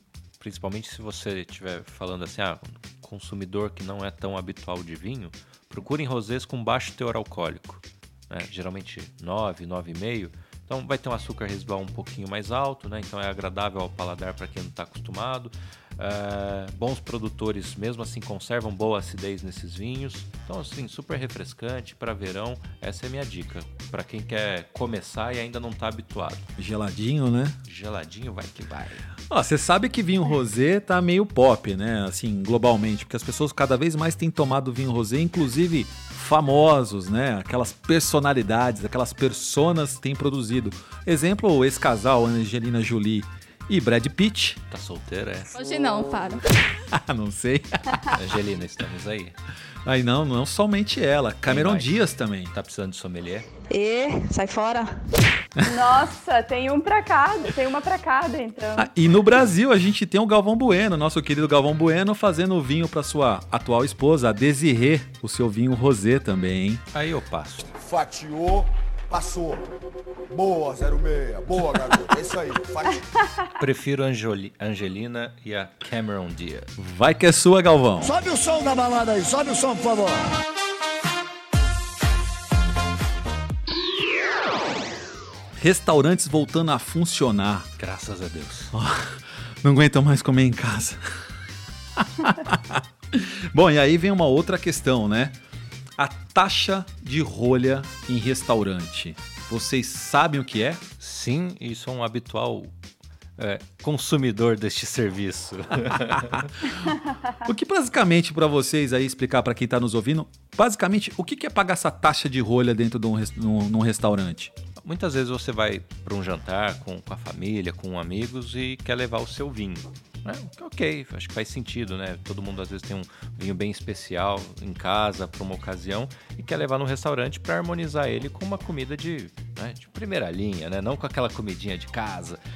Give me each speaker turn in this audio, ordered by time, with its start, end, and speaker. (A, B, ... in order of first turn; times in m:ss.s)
0:00.4-0:26.5 A
0:26.6-0:27.6 B
0:27.7-0:29.1 A
0:29.3-0:44.6 B
0:44.7-0:45.5 A
0:45.6-0:46.4 C
0:45.6-0:46.3 D
0:46.8-0:48.2 B
0:48.1-0:49.4 A
0:49.8-0:52.5 B
0:51.5-0:52.0 A
0:52.5-0:53.5 A
0:53.7-0:54.9 D
0:55.6-0:58.9 C
0:58.8-1:06.8 B
1:06.9-1:07.7 A
1:07.7-1:09.7 E
1:10.3-1:13.2 E
1:13.6-1:16.7 A
1:16.8-1:18.1 B
1:18.0-1:20.3 E
1:25.6-1:27.7 B
1:27.8-1:28.7 A
1:28.7-1:31.0 B
1:32.0-1:35.4 B
1:36.0-1:40.8 B
1:41.0-1:42.7 A
1:43.4-1:46.5 A
1:47.4-1:54.5 B
1:54.8-2:12.4 A